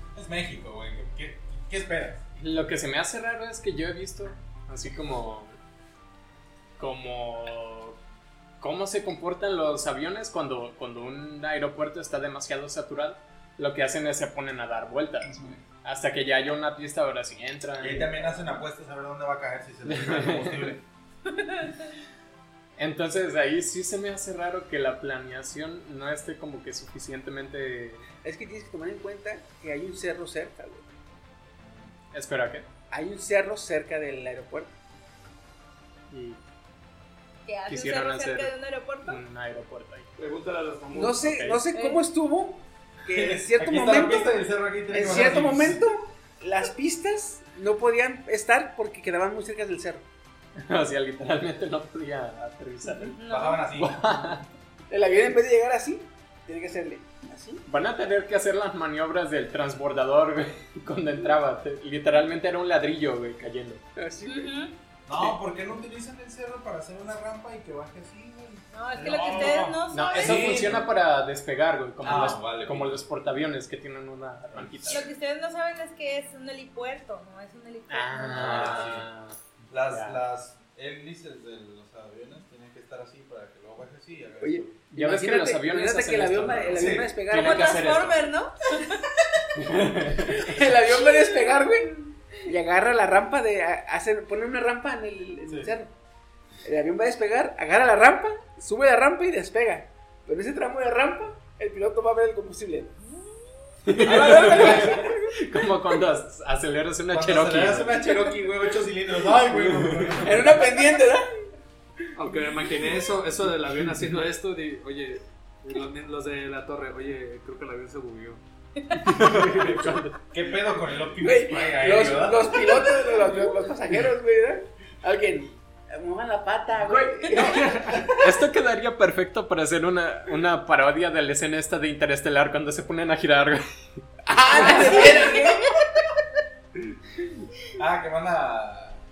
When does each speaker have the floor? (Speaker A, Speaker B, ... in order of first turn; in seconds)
Speaker A: 0.1-2.2, 17.8-20.8, 43.1-45.9, 53.3-54.0, 65.1-70.9, 72.0-73.1, 74.5-75.1, 78.3-79.1, 79.7-84.8, 86.7-87.1, 95.5-95.7, 104.1-105.0, 107.1-110.8, 120.3-122.7, 134.6-135.5, 137.8-139.0
Speaker B: 2.4-5.5, 6.8-8.0, 8.6-18.4, 19.9-20.8, 22.8-28.1, 32.1-32.7, 36.1-36.4, 37.7-40.1, 41.2-41.6, 50.6-54.5, 57.7-63.8, 69.3-75.1, 77.9-79.4, 79.9-80.2, 84.9-88.3, 89.5-90.6, 103.9-108.1, 109.5-110.3, 119.0-120.2, 126.8-135.1
Speaker C: 28.2-30.9, 32.9-34.7, 40.9-50.0, 54.9-57.6, 64.0-64.5, 84.4-87.9, 90.3-95.9, 96.6-103.0, 103.9-105.3, 110.2-111.3, 121.2-128.2, 134.2-135.7
Speaker D: 37.5-39.2, 41.7-42.0, 53.1-53.6, 64.3-64.7, 68.7-70.8, 74.9-78.9, 87.3-89.0, 90.9-91.8, 134.7-135.5
Speaker E: 40.2-41.4, 112.2-118.4, 127.4-127.8